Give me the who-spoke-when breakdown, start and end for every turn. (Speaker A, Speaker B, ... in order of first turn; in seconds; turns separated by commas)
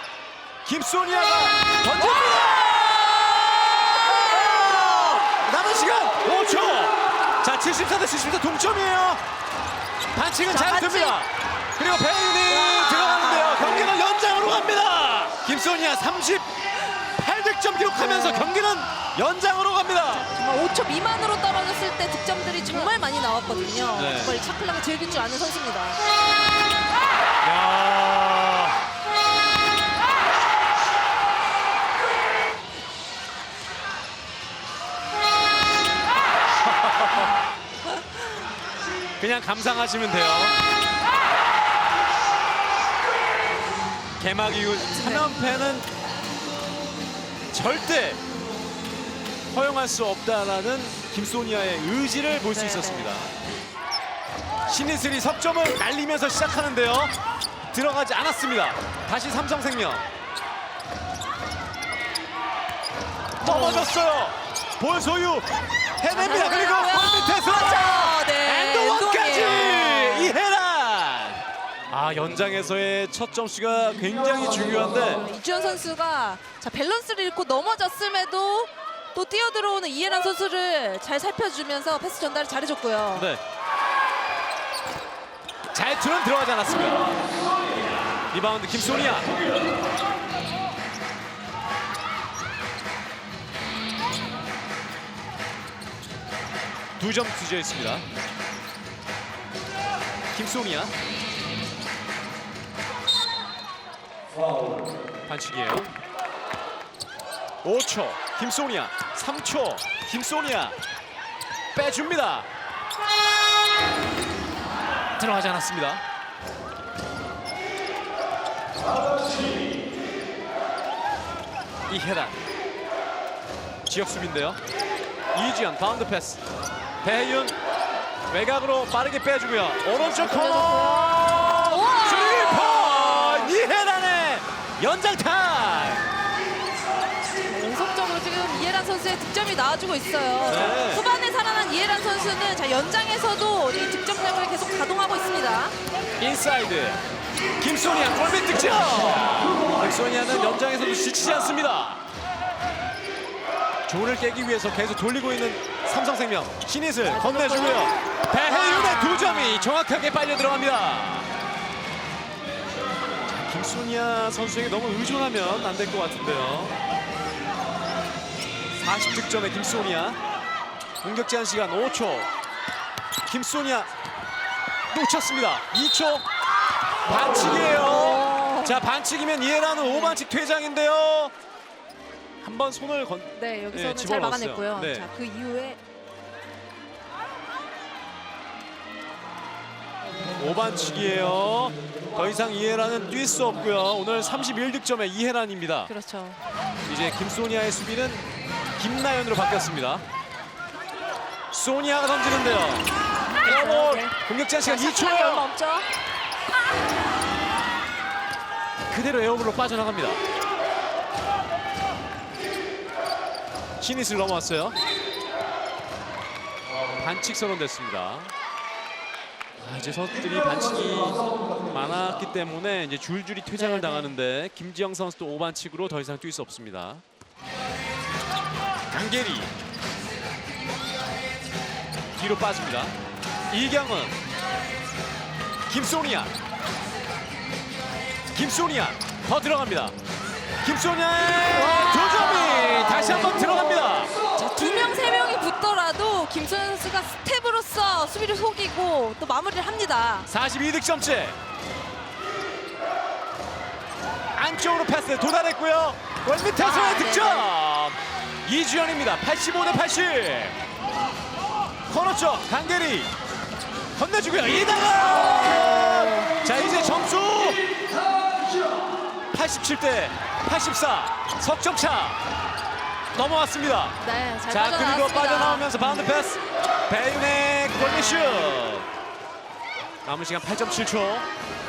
Speaker A: 0.6-9.2, Speaker A: 10.1-16.5, Speaker B: 10.5-11.2, Speaker B: 12.5-13.9, Speaker A: 17.1-20.3, Speaker B: 17.9-18.5, Speaker B: 20.2-26.0, Speaker A: 23.9-24.3, Speaker A: 27.4-28.9, Speaker A: 36.6-37.3, Speaker A: 39.2-40.5, Speaker A: 44.2-45.9, Speaker B: 45.0-45.3, Speaker A: 47.5-48.2, Speaker A: 49.5-53.3, Speaker B: 52.5-53.1, Speaker A: 54.7-57.1, Speaker A: 57.7-60.0, Speaker A: 63.4-65.5, Speaker B: 63.4-63.9, Speaker A: 66.0-75.2, Speaker B: 66.1-70.3, Speaker B: 75.0-83.3, Speaker A: 83.1-83.4, Speaker A: 85.7-87.1, Speaker A: 88.3-89.4, Speaker A: 97.0-98.1, Speaker A: 100.3-100.9, Speaker A: 105.2-105.9, Speaker A: 107.6-110.8, Speaker A: 111.7-112.5, Speaker A: 115.2-116.0, Speaker A: 121.9-122.4, Speaker A: 123.9-124.6, Speaker A: 125.3-126.4, Speaker A: 127.0-127.6, Speaker A: 128.3-136.0, Speaker B: 129.9-133.6, Speaker B: 137.4-145.7, Speaker A: 140.5-141.0, Speaker A: 146.2-147.0, Speaker A: 147.6-152.0, Speaker A: 153.9-161.3, Speaker B: 157.0-159.7, Speaker A: 163.3-166.8, Speaker A: 168.7-170.2, Speaker A: 171.0-172.3, Speaker A: 173.3-173.9, Speaker A: 174.9-176.2, Speaker A: 177.0-181.3, Speaker B: 177.6-178.8, Speaker B: 179.9-180.2, Speaker A: 182.4-185.1, Speaker B: 183.3-185.8, Speaker A: 190.3-195.9, Speaker B: 195.9-196.4, Speaker A: 196.9-200.0, Speaker A: 201.5-202.9, Speaker B: 203.2-205.9, Speaker A: 203.4-205.5, Speaker A: 208.9-210.2, Speaker A: 213.8-214.8, Speaker A: 217.0-218.3, Speaker A: 219.6-227.0, Speaker B: 223.6-224.1, Speaker A: 228.9-229.5, Speaker A: 232.2-232.9, Speaker A: 233.5-234.2, Speaker A: 235.7-236.3, Speaker A: 238.3-239.9, Speaker A: 240.6-244.1, Speaker B: 241.5-243.8, Speaker B: 244.3-250.3, Speaker A: 250.3-251.4, Speaker A: 254.3-260.6, Speaker B: 256.6-257.5, Speaker A: 261.9-263.1, Speaker A: 263.9-267.6, Speaker B: 264.9-266.4, Speaker A: 269.3-272.2, Speaker A: 273.1-274.0, Speaker B: 274.0-276.1, Speaker A: 274.5-278.9, Speaker A: 280.0-281.2